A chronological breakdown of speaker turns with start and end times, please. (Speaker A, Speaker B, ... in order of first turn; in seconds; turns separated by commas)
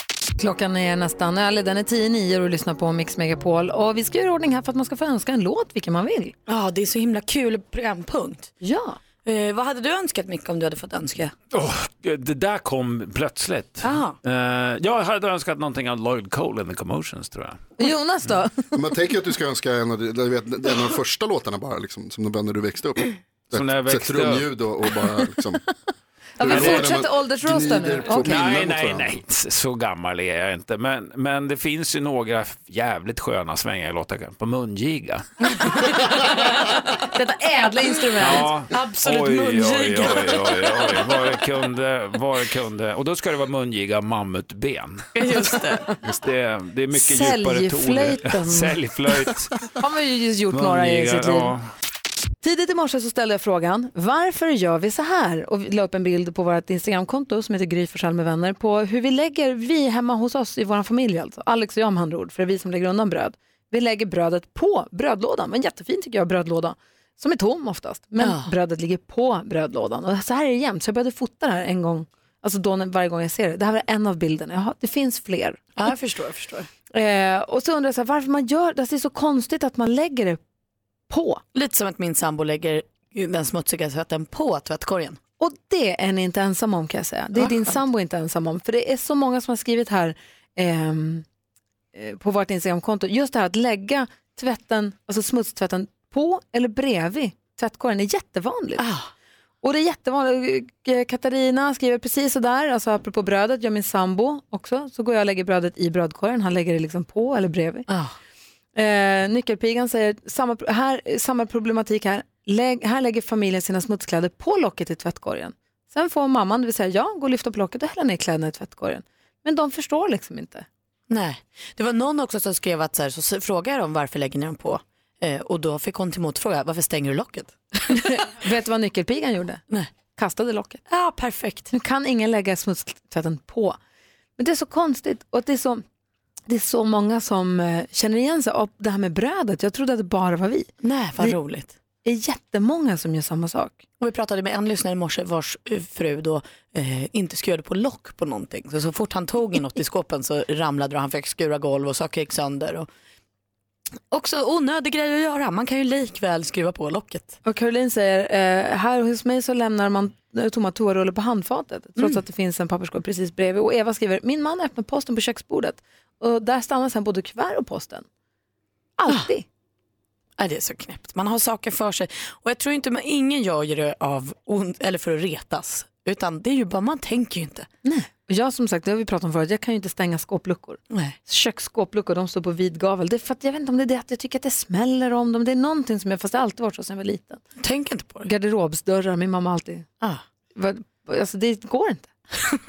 Speaker A: 0.4-6.4, Speaker B: 6.5-8.5, Speaker A: 8.6-9.0, Speaker B: 9.2-11.3, Speaker C: 11.5-17.6, Speaker B: 13.8-14.2, Speaker A: 17.8-18.7, Speaker D: 18.8-25.6, Speaker C: 23.5-24.5, Speaker A: 26.4-28.5, Speaker D: 26.4-29.2, Speaker C: 26.5-26.9, Speaker C: 28.1-35.2, Speaker B: 35.6-36.7, Speaker A: 37.1-38.5, Speaker C: 38.2-45.1, Speaker B: 38.7-41.3, Speaker B: 45.1-46.1, Speaker C: 46.1-49.5, Speaker A: 46.9-48.8, Speaker A: 49.8-51.5, Speaker C: 50.5-51.6, Speaker A: 52.4-75.9, Speaker B: 68.2-68.5, Speaker B: 75.8-76.7, Speaker A: 76.9-80.4, Speaker A: 81.1-81.4, Speaker B: 81.5-85.2, Speaker A: 85.4-91.2, Speaker B: 87.3-87.8, Speaker A: 91.9-98.8, Speaker B: 98.8-99.1, Speaker A: 99.6-107.9, Speaker B: 107.9-108.1, Speaker A: 108.8-120.7, Speaker B: 121.1-128.0, Speaker A: 128.1-129.6, Speaker A: 130.1-130.8, Speaker B: 130.9-131.7, Speaker A: 131.7-133.8, Speaker A: 134.4-135.8, Speaker A: 136.5-140.7, Speaker B: 140.8-141.8, Speaker A: 142.0-143.8, Speaker B: 144.0-152.9, Speaker B: 154.1-157.4, Speaker A: 157.4-168.1, Speaker B: 162.0-162.2, Speaker A: 169.0-169.4, Speaker B: 169.1-169.3, Speaker B: 170.4-177.7, Speaker A: 177.8-187.4, Speaker B: 180.9-181.2, Speaker B: 187.6-188.3, Speaker A: 188.2-189.9, Speaker A: 190.6-192.1